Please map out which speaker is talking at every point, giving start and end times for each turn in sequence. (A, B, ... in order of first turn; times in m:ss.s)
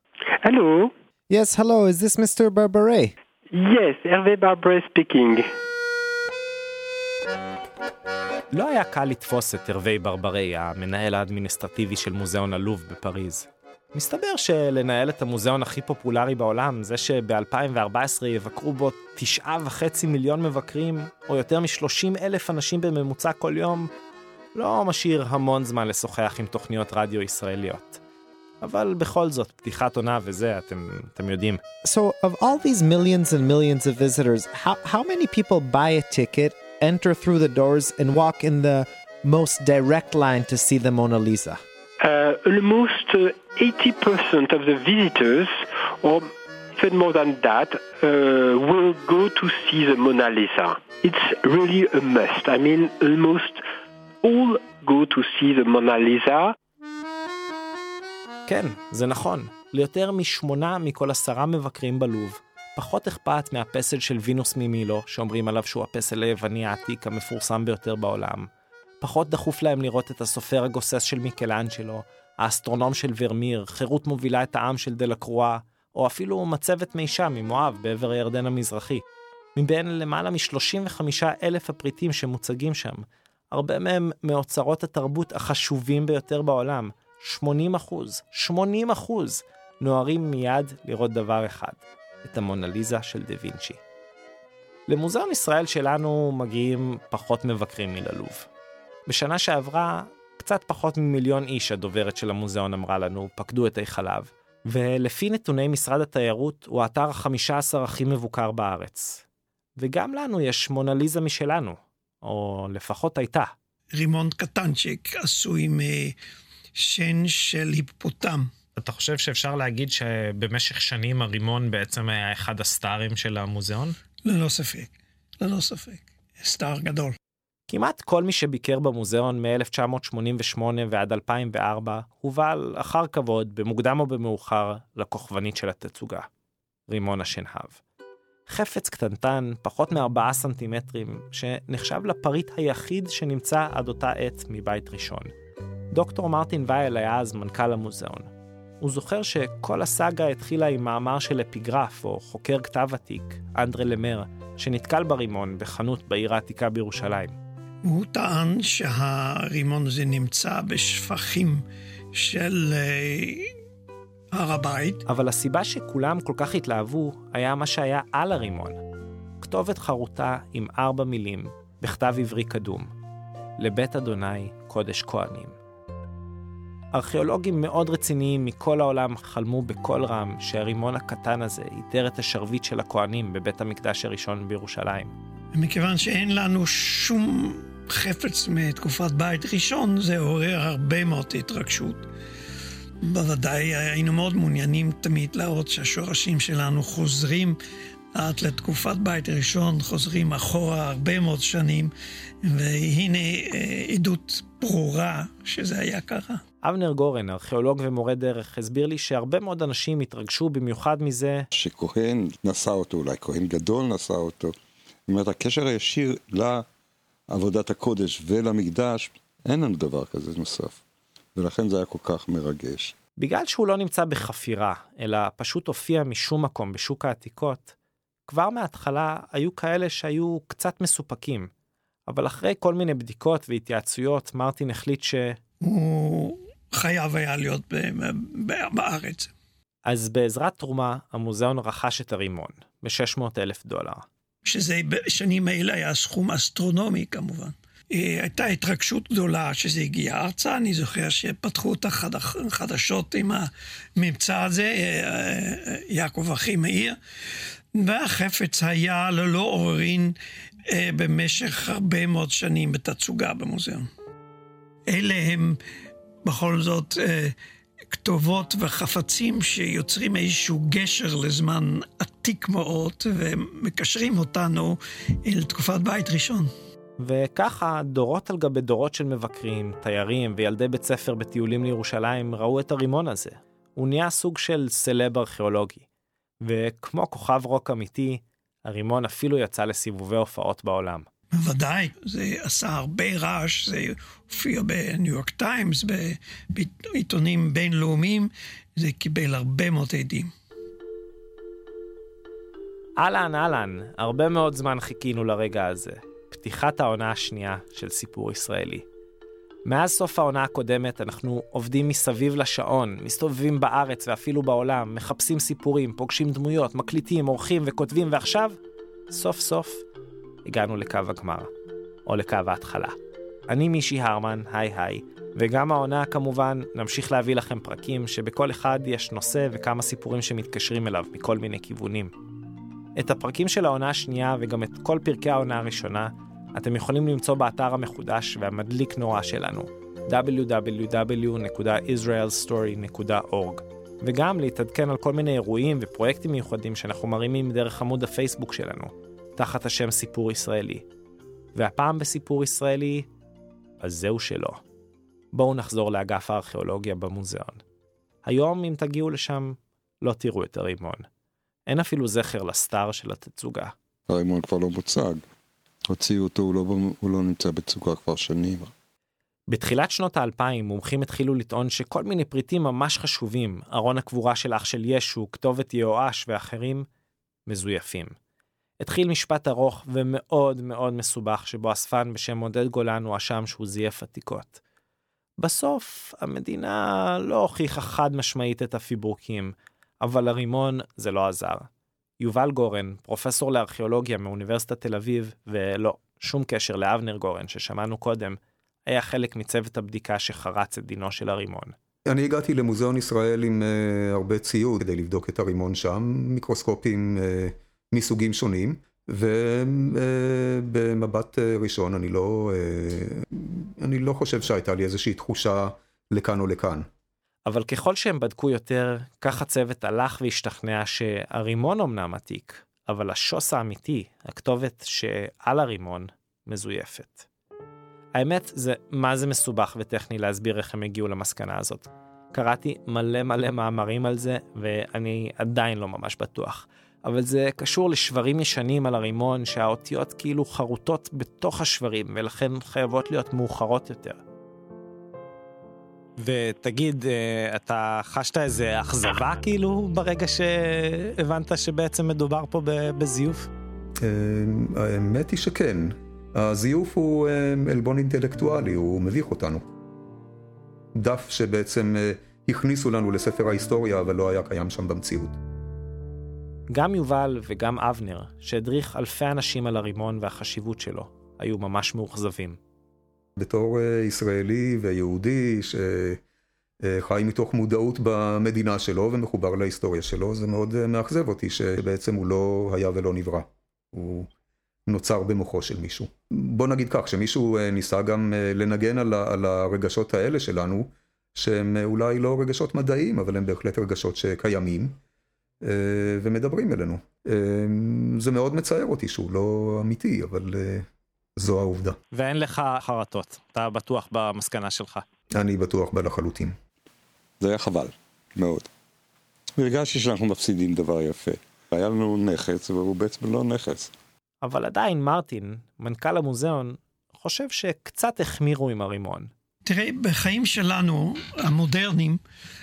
0:00.4-0:00.9 A
0:01.3-0:03.1 B
0:03.5-0:05.4 A
0:08.5-0:23.9 C
0:24.5-0:28.0 C
0:28.6-0:31.6 C
0:31.8-0:41.6 B
0:42.0-0:53.6 A
0:54.2-0:56.5 A
0:58.5-1:08.5 C
1:09.0-1:19.0 C
1:19.6-1:33.8 C
1:34.9-1:38.5 C
1:39.1-1:49.2 C
1:49.8-1:53.5 C
1:53.9-1:56.2 D
1:56.7-1:58.5 D
1:58.8-2:04.0 C
2:04.2-2:07.1 D
2:07.7-2:16.3 C
2:16.9-2:17.8 C
2:18.5-2:25.3 C
2:25.9-2:28.3 C
2:28.8-2:37.3 C
2:37.8-2:41.6 D
2:42.1-2:43.5 D
2:44.3-2:45.0 D
2:45.1-2:48.8 C
2:49.4-2:52.9 C
2:53.6-2:55.5 C
2:56.9-3:05.1 C
3:05.5-3:12.1 D
3:13.0-3:17.6 D
3:18.1-3:21.9 D
3:22.4-3:26.4 D
3:26.6-3:31.4 C
3:31.5-3:34.5 E
3:35.1-3:36.6 E
3:37.3-3:40.8 E
3:41.3-3:42.9 E
3:43.2-3:47.7 C
3:48.3-3:51.5 C
3:52.1-3:55.4 C
3:55.6-3:59.3 D
3:59.8-4:04.0 C
4:04.4-4:17.0 D
4:17.7-4:20.1 D
4:20.7-4:23.9 D
4:24.9-4:25.6 D
4:26.2-4:27.3 D
4:27.9-4:36.5 D
4:37.0-4:45.8 C
4:46.4-4:51.1 C
4:51.3-5:00.3 D
5:03.0-5:08.8 C
5:09.6-5:18.6 C
5:19.1-5:19.8 C
5:20.4-5:21.5 C
5:22.1-5:22.9 C
5:23.5-5:32.1 C
5:33.0-5:50.8 C
5:51.5-5:53.1 C
5:53.8-5:54.6 C
5:55.3-5:57.6 C
5:58.2-6:01.0 C
6:01.7-6:03.7 C
6:04.1-6:05.2 E
6:05.9-6:08.7 E
6:09.5-6:16.8 C
6:17.5-6:18.1 C
6:18.8-6:24.6 C
6:25.4-6:31.7 C
6:32.2-6:41.7 C
6:42.1-6:56.9 F
6:57.4-7:07.2 C
7:08.1-7:24.2 C
7:26.2-7:33.5 C
7:34.0-7:39.6 F
7:40.9-7:45.4 F
7:46.7-7:52.6 C
7:53.4-7:56.2 F
7:56.8-8:04.3 F
8:04.9-8:15.0 F
8:15.6-8:22.0 F
8:22.1-8:25.0 C
8:25.3-8:26.6 F
8:27.4-8:28.7 E
8:29.6-8:33.9 E
8:34.4-8:39.3 C
8:39.6-8:42.2 D